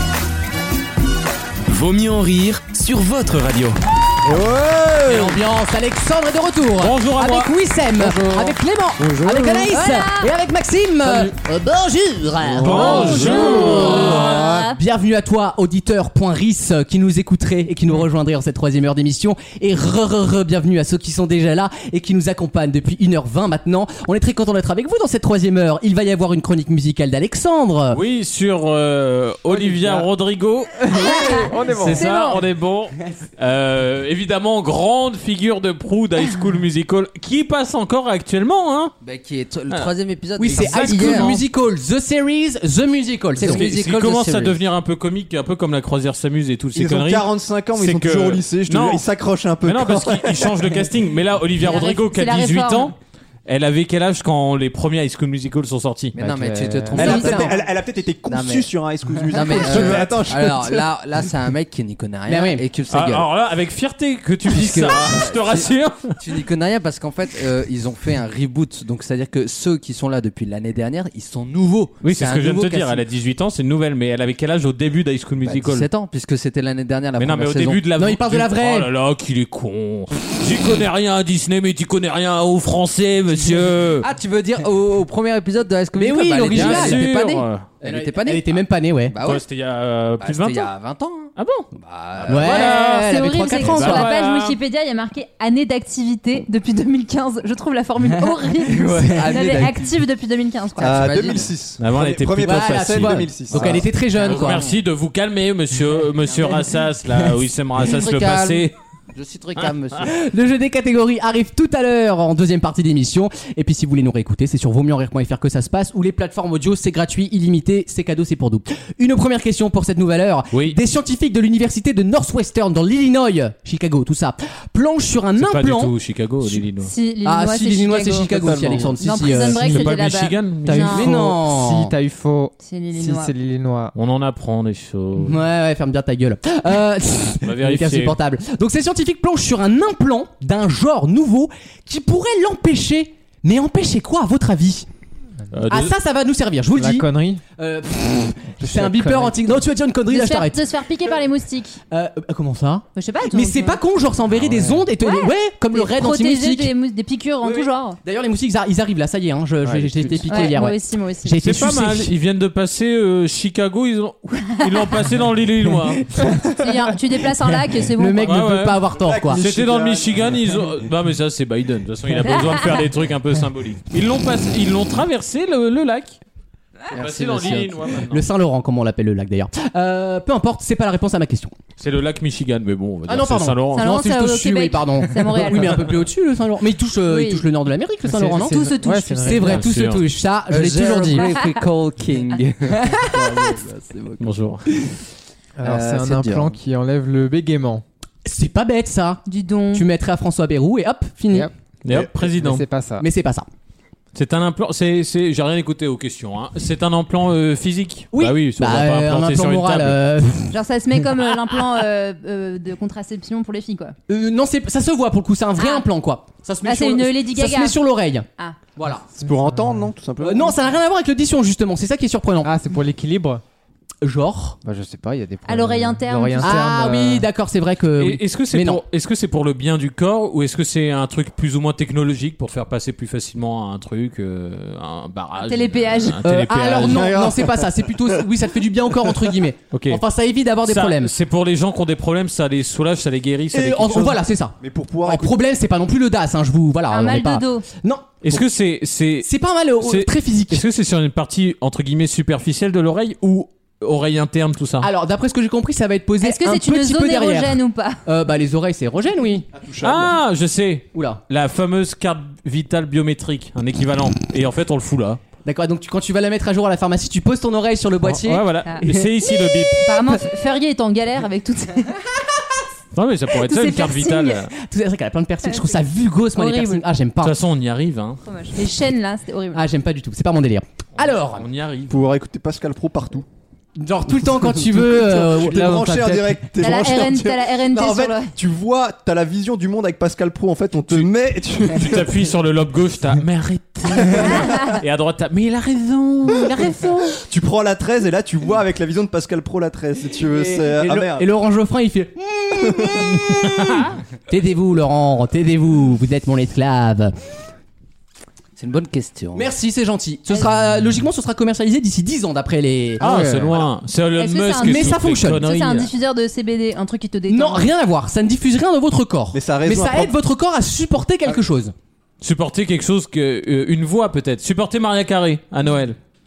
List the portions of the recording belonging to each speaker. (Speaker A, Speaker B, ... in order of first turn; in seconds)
Speaker A: 1.7-3.8
Speaker B: 4.2-5.3, 12.4-14.3, 46.7-50.7, 56.9-60.9, 100.8-103.8, 128.3-129.0, 168.9-170.4, 219.1-220.6, 236.8-238.0, 244.0-245.3, 259.5-260.2, 281.9-283.2, 284.8-292.2, 294.1-294.4, 297.3-301.2, 319.3-320.1
Speaker C: 5.0-28.0, 40.4-43.7, 57.0-57.5, 62.2-62.6, 78.0-78.9, 86.0-87.0, 87.8-89.1, 92.3-94.1, 98.0-99.4, 102.4-104.7, 110.0-125.9, 127.2-129.6, 130.8-131.9, 135.2-144.9, 145.7-150.6, 151.9-156.7, 157.4-162.1, 166.1-166.5, 167.7-169.4, 178.0-181.5, 183.1-191.3, 192.7-193.6, 198.2-199.2, 199.7-202.0, 203.0-203.5, 208.1-210.6, 214.1-219.0, 220.2-222.5, 224.0-224.6, 226.4-228.8, 236.2-241.1, 243.5-248.4, 249.2-250.6, 254.8-259.5, 260.9-261.2, 265.4-268.4, 273.5-277.3, 279.5-281.5, 283.8-286.1, 296.5-296.9, 300.2-307.1, 309.3-313.1, 314.6-315.6, 317.3-321.7
Speaker D: 6.8-7.5, 9.0-9.7, 12.6-14.4, 27.9-38.9, 40.5-41.4, 43.4-49.1, 49.6-56.2, 59.5-60.1, 62.9-66.2, 72.0-75.9, 77.2-84.1, 86.5-87.7, 89.2-90.7, 91.3-94.6, 101.8-108.7, 120.5-120.8, 125.4-126.9, 129.2-130.9, 133.9-135.4, 137.4-138.2, 145.5-145.9, 154.4-154.7, 161.4-166.1, 168.2-176.2, 176.9-178.2, 181.8-183.9, 189.5-190.0, 194.2-194.7, 201.8-202.6, 204.1-210.0, 228.0-237.2, 239.7-240.0, 240.6-244.1, 248.2-254.9, 259.8-265.2, 268.0-270.2, 272.9-274.5, 277.2-278.2, 280.9-282.1, 291.7-296.9, 303.4-303.9, 313.0-315.9, 322.2-326.0
Speaker E: 8.1-8.5, 29.5-30.1, 30.8-32.0, 56.2-57.2, 129.5-130.0, 130.6-133.9, 146.8-147.4, 148.6-149.5, 159.6-160.4, 188.1-189.6, 195.6-197.8, 202.3-203.1, 219.2-219.9, 222.4-223.4, 224.6-227.3, 285.4-286.4, 313.0-313.5
Speaker F: 9.7-10.3, 12.7-14.8, 30.9-32.4, 51.6-52.9, 92.5-101.1, 126.8-131.1, 132.6-133.3, 150.1-151.8, 152.9-153.8, 155.0-158.0, 160.3-161.4, 166.6-168.4, 183.7-185.9, 187.1-187.4, 188.4-189.5, 199.2-199.9, 210.5-213.9, 215.6-215.8, 216.6-217.8, 225.4-226.6, 235.3-236.2, 246.9-247.6, 256.2-258.0, 268.6-272.1, 273.5-274.2, 275.4-275.8, 276.3-276.8, 278.2-279.6, 286.6-288.3, 294.2-294.8, 314.2-317.7
Speaker G: 39.0-41.4, 43.4-44.6, 56.1-57.7, 58.3-58.7, 59.3-63.3, 64.5-65.7, 66.2-73.0, 75.4-77.8, 83.5-89.4, 90.2-92.6, 98.6-99.9, 100.8-101.5, 104.3-104.7, 106.3-106.7, 107.8-110.1, 176.9-177.8, 190.5-195.0, 195.6-196.6, 308.6-309.5